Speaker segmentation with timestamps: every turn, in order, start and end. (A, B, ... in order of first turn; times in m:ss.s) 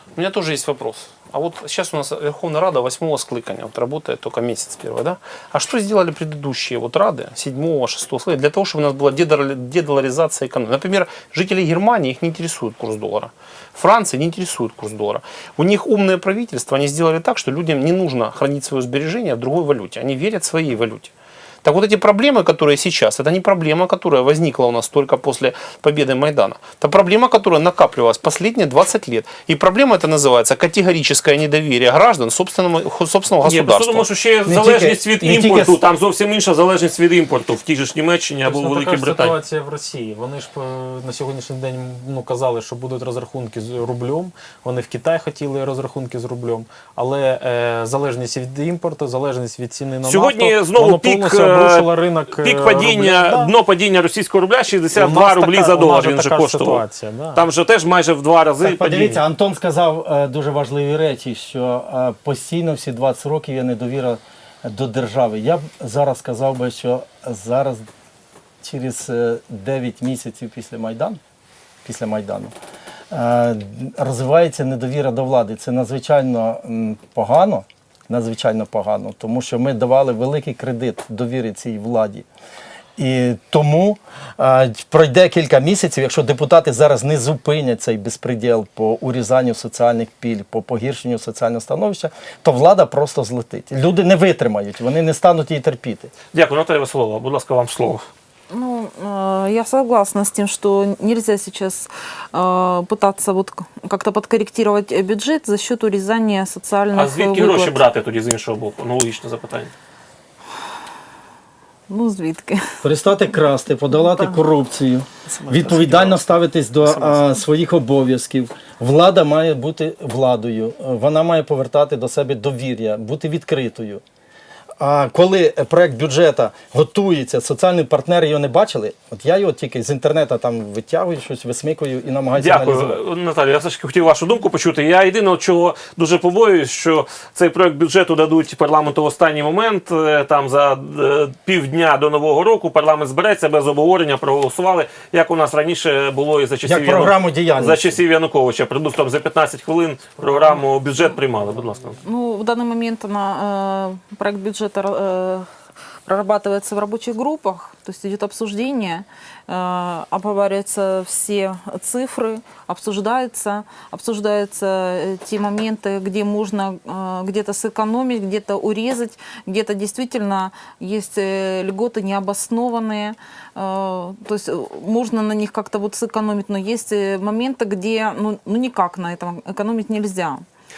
0:00.2-0:21.1 A
0:21.6-0:34.1 A
0:33.4-0:39.4 B
0:34.4-0:35.8 C
0:38.4-0:53.5 D
0:50.0-0:56.8 B
0:54.9-0:57.4 D
0:57.3-0:59.2 B
0:58.6-1:07.8 C
1:08.6-1:11.2 C
1:11.8-1:12.5 C
1:13.1-1:22.2 C
1:23.0-1:36.1 C
1:36.3-1:38.0 B
1:38.5-1:47.8 E
1:46.9-1:49.7 B
1:51.9-1:52.6 E
1:52.8-2:04.0 C
1:53.9-1:54.4 E
1:55.3-1:56.3 A
1:56.8-1:57.3 A
2:04.8-2:13.0 C
2:12.4-2:32.0 B
2:26.6-2:27.9 C
2:30.2-2:30.7 D
2:31.4-2:32.0 D
2:32.0-2:35.5 E
2:36.0-3:00.4 E